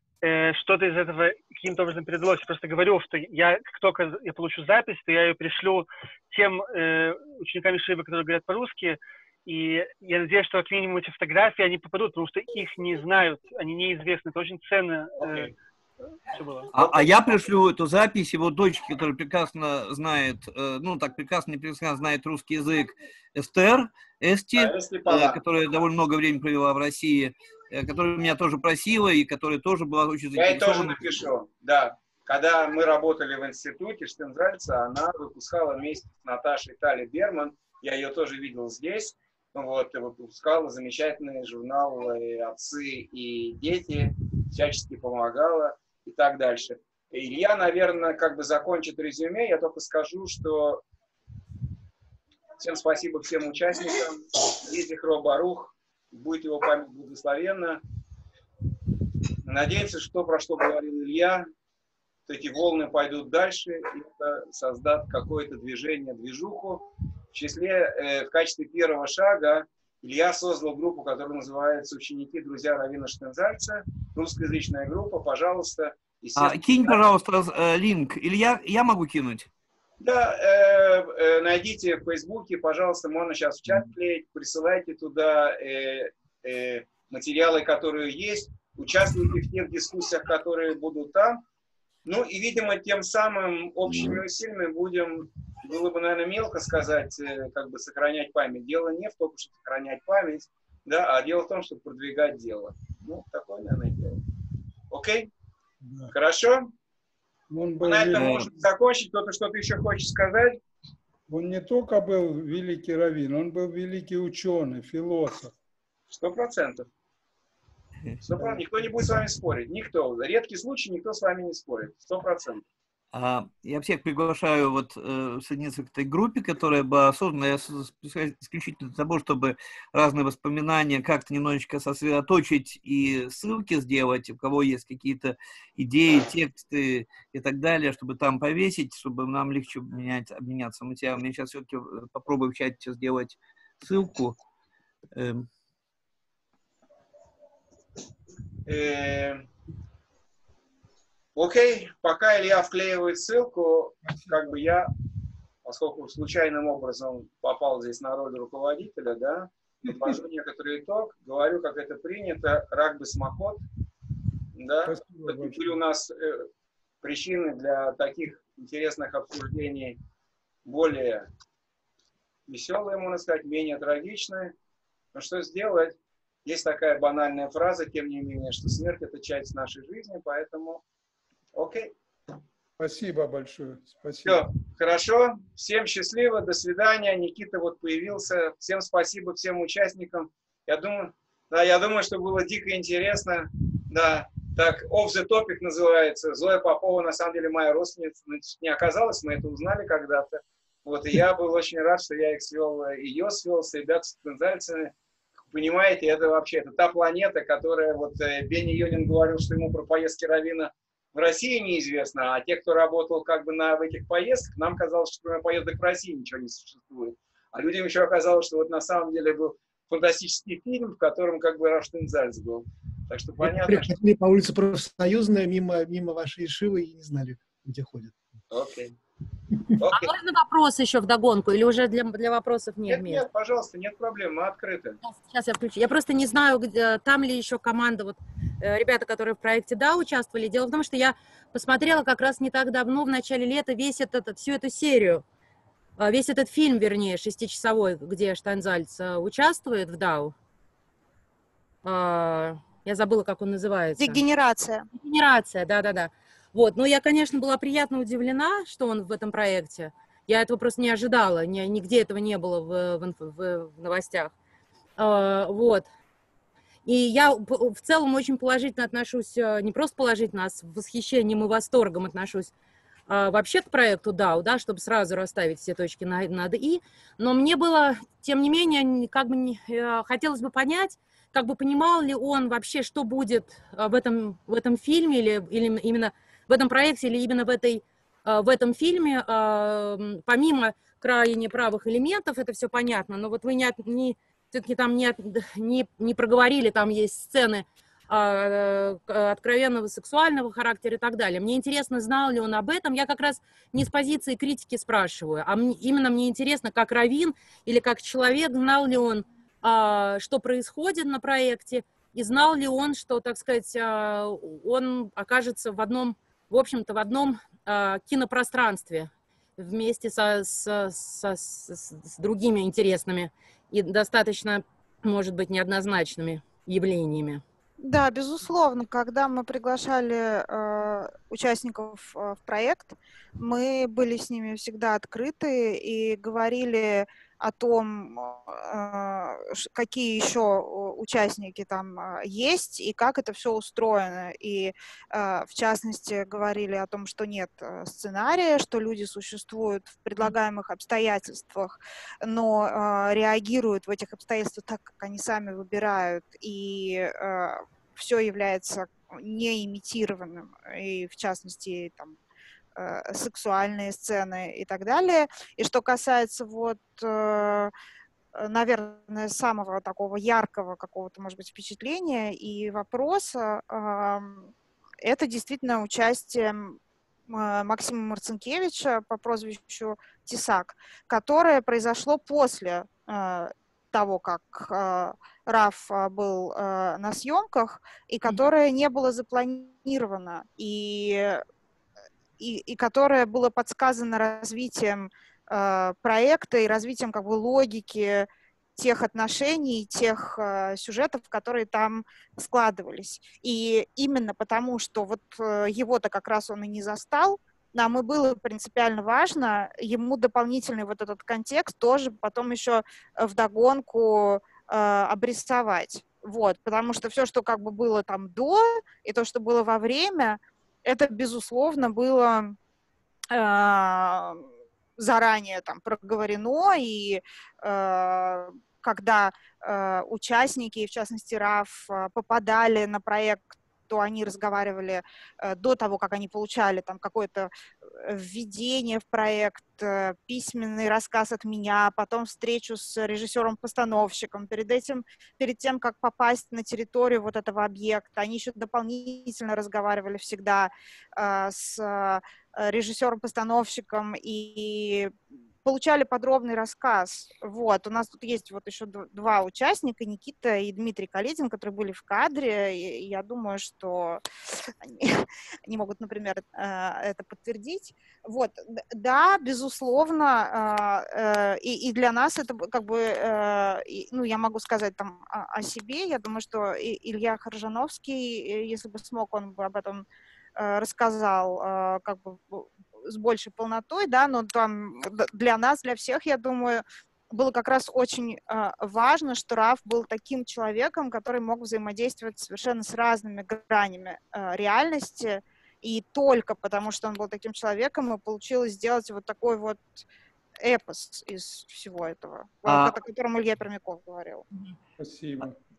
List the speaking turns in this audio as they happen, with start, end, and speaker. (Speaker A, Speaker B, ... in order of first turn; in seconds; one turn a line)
Speaker A: 0.2-15.5
Speaker B: 15.2-15.5
Speaker A: 16.3-16.7
Speaker C: 16.7-31.1
Speaker B: 16.7-17.4
Speaker B: 24.6-25.4
Speaker B: 30.4-50.8
Speaker B: 52.6-57.8
Speaker B: 59.4-61.5
Speaker B: 62.3-77.0
Speaker C: 76.4-79.5
Speaker B: 80.0-91.4
Speaker B: 92.0-104.2
Speaker B: 104.9-105.3
Speaker D: 105.8-106.1
Speaker B: 106.1-106.7
Speaker D: 107.5-108.4
Speaker B: 107.8-110.6
Speaker C: 108.1-108.5
Speaker D: 111.3-115.5
Speaker B: 116.1-116.9
Speaker B: 118.2-122.6
Speaker D: 118.4-118.6
Speaker C: 123.1-144.3
Speaker C: 145.1-145.5
Speaker B: 148.7-149.4
Speaker B: 151.3-154.9
Speaker B: 155.6-163.6
Speaker B: 164.5-166.4
Speaker D: 164.8-165.8
Speaker B: 167.0-170.0
Speaker B: 170.6-171.3
Speaker B: 172.5-174.5
Speaker B: 175.1-180.8
Speaker B: 181.5-181.9
Speaker D: 182.8-184.5
Speaker B: 184.2-204.9
Speaker B: 205.5-223.9
Speaker E: 223.4-228.3
Speaker B: 228.5-228.9
Speaker B: 229.8-230.1
Speaker F: 229.9-233.2
Speaker B: 232.9-235.0
Speaker F: 235.0-245.2
Speaker F: 246.0-250.3
Speaker F: 251.8-254.2
Speaker G: 254.0-254.9
Speaker F: 254.9-264.3
Speaker F: 265.0-265.9
Speaker F: 266.8-272.5
Speaker F: 273.1-327.4
Speaker G: 327.8-362.2
Speaker G: 362.8-367.7
Speaker G: 368.4-374.5
Speaker G: 375.0-391.4
Speaker G: 392.4-422.6
Speaker G: 423.3-424.4
Speaker G: 425.0-480.1
Speaker G: 480.6-500.0
Speaker G: 500.6-504.4
Speaker C: 502.7-502.9
Speaker D: 505.0-505.6